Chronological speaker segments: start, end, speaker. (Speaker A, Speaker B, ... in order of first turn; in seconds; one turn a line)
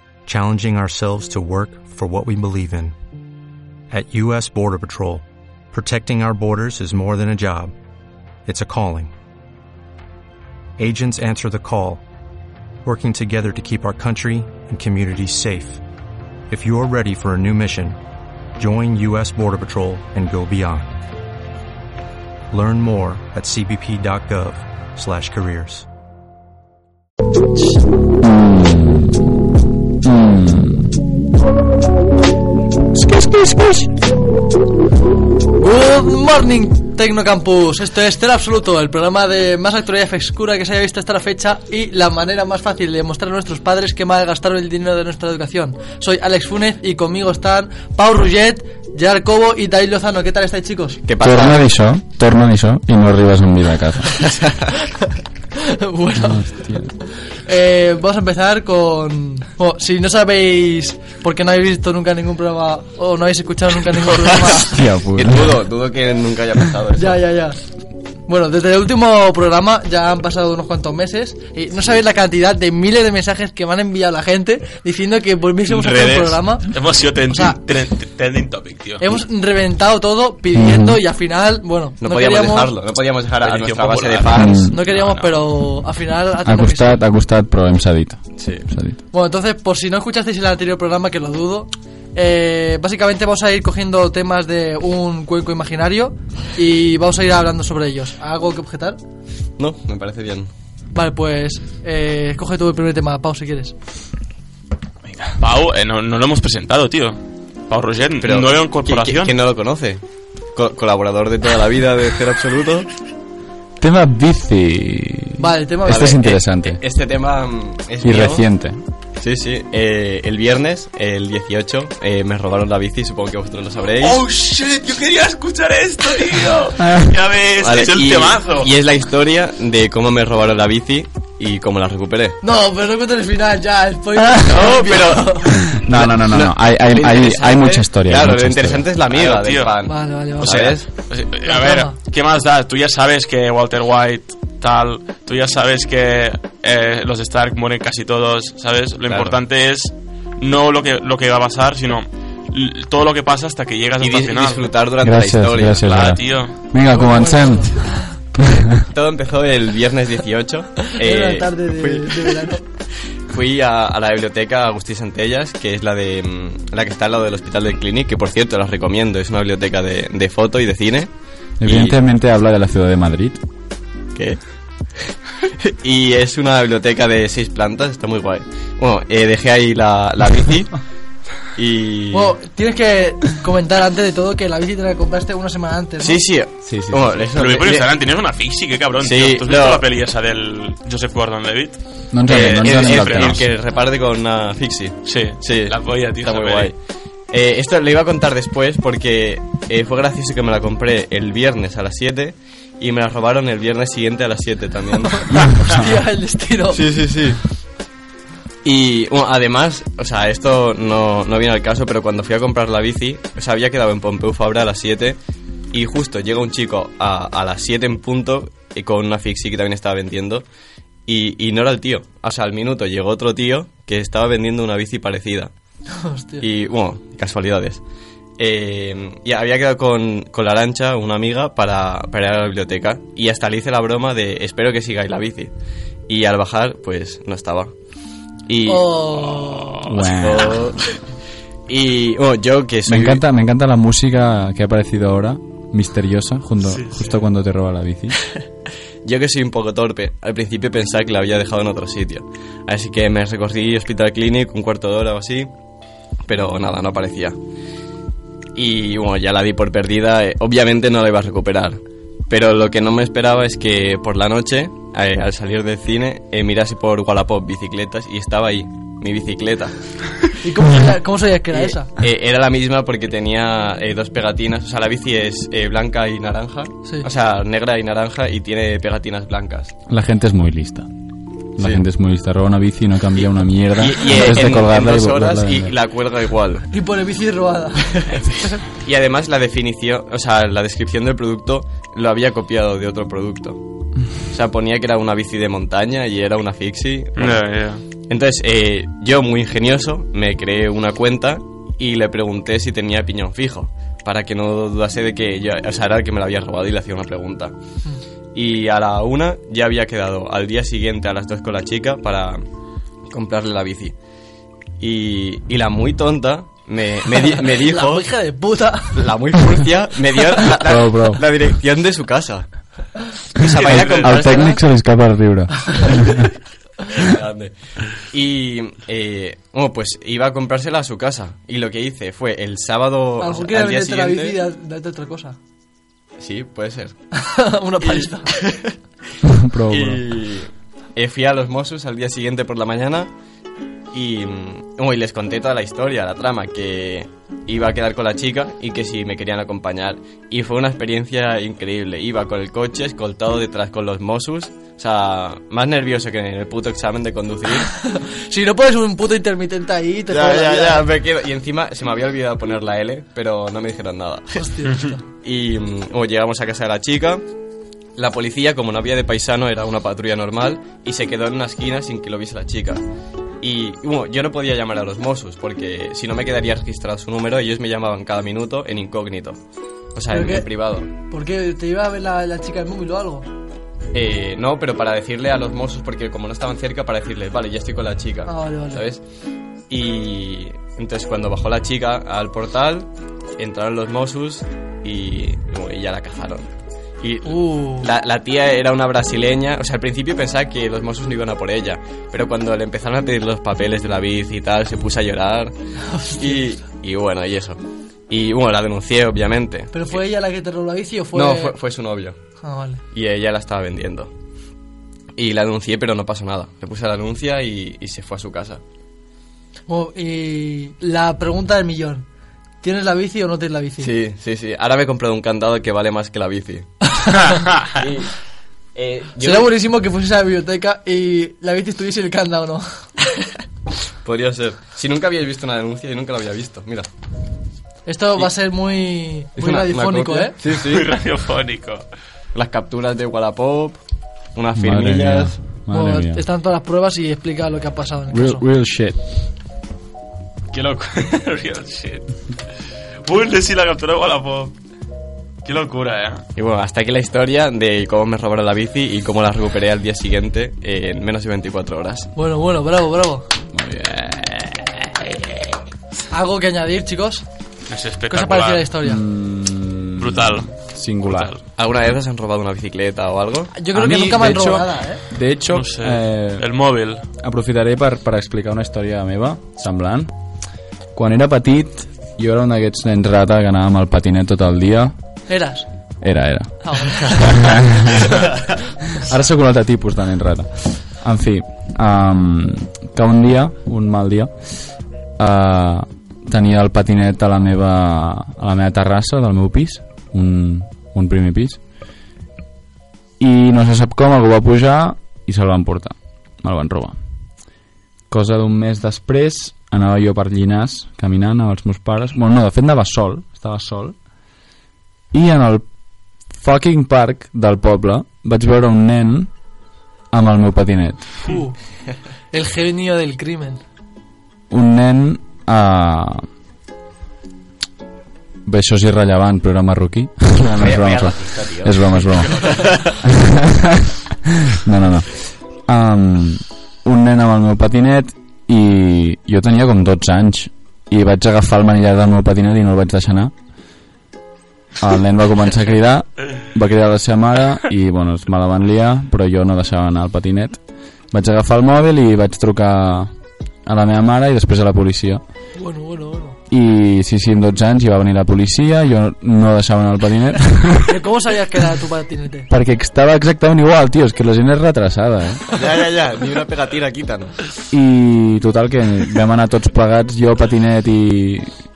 Speaker A: 0.3-3.0
Speaker A: 3.9-7.7
Speaker A: 8.4-9.1
Speaker A: 10.8-12.0
Speaker A: 12.8-15.8
Speaker A: 16.5-18.0
Speaker A: 18.6-20.9
Speaker A: 22.5-25.9
Speaker B: 28.2-29.4
Speaker B: 30.0-30.9
Speaker B: 32.9-34.0
Speaker C: 35.6-51.0
Speaker D: 51.1-51.7
Speaker B: 51.2-54.2
Speaker D: 54.2-54.7
Speaker C: 55.5-56.6
Speaker B: 56.2-56.9
Speaker C: 57.3-64.8
Speaker B: 64.6-65.7
Speaker D: 65.2-67.2
Speaker C: 67.0-67.6
Speaker C: 68.3-76.7
Speaker E: 75.7-79.2
Speaker C: 77.3-77.6
Speaker C: 79.0-82.7
Speaker B: 80.5-81.0
Speaker D: 82.0-84.7
Speaker E: 83.4-85.3
Speaker B: 84.3-84.8
Speaker C: 84.7-87.0
Speaker B: 86.5-89.0
Speaker D: 88.4-88.7
Speaker C: 89.1-99.0
Speaker D: 99.6-100.5
Speaker C: 100.9-103.8
Speaker B: 105.1-105.4
Speaker E: 105.4-109.3
Speaker D: 108.2-110.0
Speaker D: 110.5-112.9
Speaker B: 113.8-116.8
Speaker C: 115.4-116.1
Speaker D: 115.9-118.5
Speaker B: 118.0-118.8
Speaker D: 119.2-124.2
Speaker E: 124.0-128.7
Speaker B: 126.8-127.2
Speaker D: 127.6-132.4
Speaker C: 132.4-135.6
Speaker D: 134.3-140.9
Speaker B: 135.5-138.9
Speaker E: 139.0-139.7
Speaker C: 139.8-140.7
Speaker E: 140.4-154.7
Speaker C: 141.4-141.9
Speaker D: 149.1-149.4
Speaker D: 154.0-155.9
Speaker B: 155.0-158.9
Speaker E: 155.8-156.6
Speaker C: 156.9-158.1
Speaker D: 158.8-162.4
Speaker C: 160.9-162.7
Speaker D: 163.3-171.1
Speaker B: 171.6-173.4
Speaker D: 171.6-172.0
Speaker D: 174.2-180.8
Speaker D: 181.6-182.3
Speaker C: 182.1-186.2
Speaker D: 186.0-187.9
Speaker B: 186.7-187.1
Speaker E: 187.1-193.5
Speaker D: 189.0-189.8
Speaker B: 192.1-193.5
Speaker D: 192.3-196.8
Speaker E: 195.1-196.7
Speaker D: 197.3-205.9
Speaker C: 205.1-206.9
Speaker D: 206.7-207.4
Speaker D: 208.6-215.2
Speaker D: 215.7-220.5
Speaker D: 221.1-225.5
Speaker C: 225.9-226.4
Speaker D: 226.4-227.8
Speaker D: 228.4-235.5
Speaker D: 236.1-237.7
Speaker D: 238.5-238.9
Speaker C: 238.7-239.9
Speaker E: 239.3-240.0
Speaker B: 239.8-240.7
Speaker D: 240.1-240.9
Speaker D: 241.7-243.2
Speaker B: 242.9-248.2
Speaker E: 246.7-247.1
Speaker D: 249.0-255.5
Speaker D: 256.3-257.4
Speaker D: 258.6-270.3
Speaker C: 270.4-271.9
Speaker D: 271.5-279.7
Speaker B: 279.9-280.9
Speaker B: 281.6-285.8
Speaker D: 281.6-281.8
Speaker D: 283.8-286.7
Speaker C: 286.7-288.0
Speaker D: 287.9-297.4
Speaker E: 297.2-297.8
Speaker D: 298.1-307.6
Speaker D: 308.4-312.4
Speaker D: 313.1-313.9
Speaker D: 314.8-318.1
Speaker C: 317.2-319.1
Speaker D: 318.9-322.5
Speaker B: 320.5-321.3
Speaker D: 323.3-324.6
Speaker E: 323.6-324.3
Speaker B: 323.7-326.3
Speaker D: 325.9-326.3
Speaker D: 326.9-334.4
Speaker C: 333.2-335.4
Speaker D: 336.2-337.0
Speaker C: 337.1-338.4
Speaker D: 337.8-338.8
Speaker B: 339.2-340.1
Speaker D: 339.7-343.1
Speaker D: 343.9-357.8
Speaker C: 357.7-360.9
Speaker D: 360.1-367.2
Speaker C: 364.4-365.0
Speaker D: 368.0-372.8
Speaker D: 373.4-379.4
Speaker D: 379.9-380.9
Speaker C: 380.1-383.3
Speaker D: 383.9-389.0
Speaker C: 388.3-388.8
Speaker D: 389.7-396.5
Speaker D: 397.0-405.5
Speaker C: 397.2-397.9
Speaker C: 405.8-406.5
Speaker D: 406.2-410.0
Speaker C: 409.7-411.6
Speaker D: 411.1-412.2
Speaker C: 412.4-412.8
Speaker D: 412.9-414.1
Speaker D: 415.2-418.6
Speaker C: 419.7-422.1
Speaker C: 422.6-423.9
Speaker D: 423.8-426.7
Speaker C: 427.0-427.3
Speaker D: 427.6-428.2
Speaker D: 428.8-429.5
Speaker C: 429.2-433.0
Speaker D: 434.0-436.9
Speaker C: 437.9-440.4
Speaker D: 439.4-440.9
Speaker E: 440.5-441.8
Speaker D: 442.4-443.8
Speaker D: 444.4-445.4
Speaker B: 444.6-446.2
Speaker C: 445.7-448.4
Speaker B: 448.1-449.0
Speaker E: 450.5-452.1
Speaker E: 453.1-454.5
Speaker E: 455.4-456.2
Speaker D: 456.4-462.1
Speaker C: 462.2-463.3
Speaker B: 463.5-465.5
Speaker C: 466.1-467.2
Speaker E: 467.7-468.7
Speaker C: 468.1-469.0
Speaker B: 468.8-471.4
Speaker E: 470.0-471.4
Speaker D: 471.6-473.5
Speaker C: 473.6-475.0
Speaker B: 473.7-476.5
Speaker E: 475.5-477.0
Speaker B: 477.2-480.1
Speaker B: 480.9-484.9
Speaker C: 485.3-485.7
Speaker B: 486.0-488.3
Speaker C: 486.6-487.6
Speaker B: 488.9-494.3
Speaker B: 495.2-501.6
Speaker B: 503.2-507.0
Speaker B: 508.1-514.0
Speaker B: 515.1-515.7
Speaker B: 516.3-519.3
Speaker B: 520.1-521.3
Speaker C: 521.2-521.6
Speaker C: 522.3-523.6
Speaker B: 524.5-526.3
Speaker B: 528.5-543.3
Speaker D: 530.5-532.9
Speaker B: 544.8-550.6
Speaker B: 551.1-553.1
Speaker B: 553.6-555.2
Speaker C: 555.6-556.4
Speaker B: 556.5-561.0
Speaker C: 560.9-562.5
Speaker B: 562.5-565.5
Speaker D: 565.5-567.4
Speaker B: 567.7-571.5